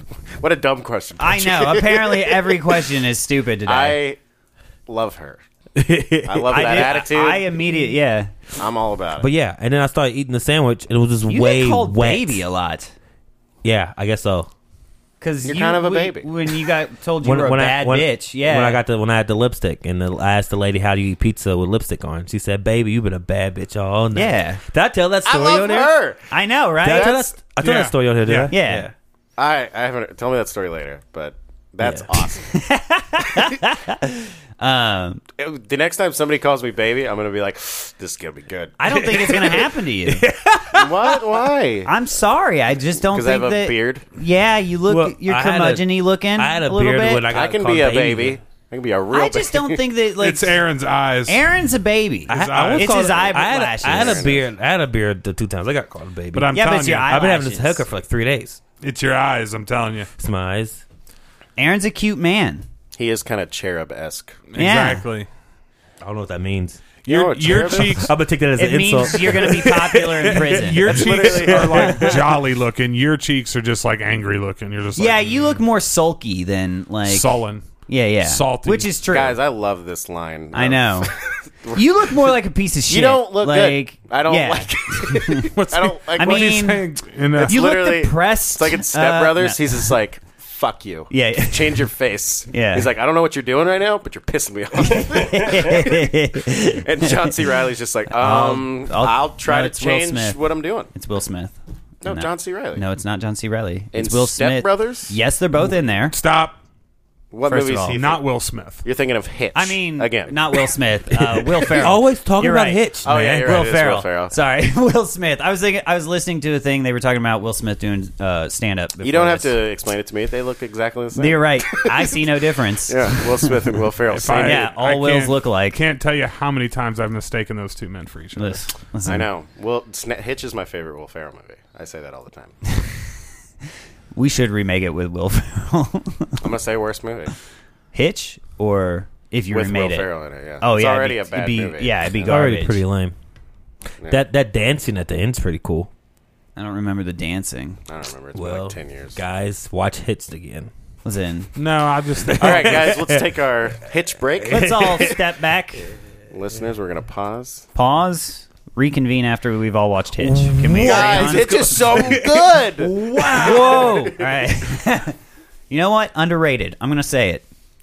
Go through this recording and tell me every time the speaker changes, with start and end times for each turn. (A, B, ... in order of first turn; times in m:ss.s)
0:00.4-0:02.8 A
0:01.2-0:04.0 B
0:03.6-0:04.2 A
0:04.9-0:05.4 A
0:05.8-0:06.9 C
0:06.2-0:07.5 A
0:06.5-0:08.3 B
0:08.6-0:09.3 A
0:09.2-0:12.4 C
0:11.3-0:12.9 B
0:13.6-0:14.5 C
0:15.2-0:18.8 B
0:15.4-0:16.3 A
0:17.2-0:25.9 C
0:24.1-0:24.6 B
0:25.2-0:26.3 A
0:26.3-0:27.2 B
0:26.8-0:28.9 C
0:26.8-0:27.3 A
0:27.6-0:28.5 D
0:28.5-0:28.9 B
0:29.4-0:32.5 A
0:31.8-0:35.2 B
0:35.4-0:39.2 A
0:38.8-0:40.3 B
0:38.9-0:41.2 C
0:40.7-0:41.9 A
0:41.8-0:47.2 B
0:43.0-0:44.0 A
0:44.9-0:48.4 C
0:47.3-0:49.8 A
0:49.1-0:50.6 B
0:50.2-0:51.4 D
0:51.3-0:54.3 B
0:52.3-0:52.9 D
0:52.3-0:58.6 C
0:53.8-0:54.5 A
0:56.3-0:57.1 D
0:56.5-0:57.8 B
0:58.8-1:00.1 D
1:00.2-1:00.8 C
1:01.6-1:02.6 B
1:03.0-1:04.4 A
1:04.5-1:05.3 D
1:04.6-1:05.0 B
1:06.0-1:06.8 C
1:07.0-1:08.1 D
1:07.1-1:08.1 A
1:07.5-1:12.4 C
1:08.6-1:10.9 B
1:10.6-1:15.6 D
1:10.8-1:12.0 A
1:11.8-1:12.1 B
1:15.0-1:19.4 B
1:17.0-1:17.7 D
1:18.2-1:18.9 D
1:19.1-1:22.3 A
1:20.5-1:21.1 B
1:21.7-1:25.5 B
1:22.9-1:26.7 A
1:25.5-1:27.6 D
1:26.1-1:26.9 B
1:27.3-1:40.9 A
1:27.4-1:29.9 B
1:31.1-1:31.9 B
1:32.5-1:32.9 B
1:34.8-1:37.4 B
1:38.1-1:40.4 B
1:40.9-1:46.1 B
1:42.0-1:42.8 A
1:43.9-1:45.2 A
1:46.1-1:46.6 D
1:47.3-1:48.2 A
1:47.5-1:48.0 B
1:47.9-1:48.8 D
1:48.8-1:50.4 A
1:49.5-1:59.6 B
1:51.4-1:53.6 C
1:53.0-1:54.3 A
1:59.0-2:02.2 A
2:01.2-2:03.7 B
2:02.9-2:04.7 A
2:04.1-2:08.6 D
2:04.3-2:05.8 B
2:08.4-2:09.3 B
2:09.0-2:12.6 A
2:14.1-2:16.4 B
2:16.4-2:17.3 A
2:17.9-2:22.8 B
2:19.5-2:22.3 A
2:22.2-2:23.1 C
2:24.1-2:25.9 C
2:26.6-2:27.8 B
2:27.9-2:29.2 A
2:28.3-2:30.7 C
2:31.0-2:31.5 B
2:31.5-2:32.9 D
2:32.2-2:33.3 C
2:32.4-2:35.2 A
2:34.5-2:35.2 C
2:34.5-2:35.9 B
2:36.3-2:37.6 A
2:37.7-2:41.7 B
2:40.2-2:44.1 C
2:40.8-2:44.6 A
2:43.3-2:45.2 B
2:45.7-2:47.4 B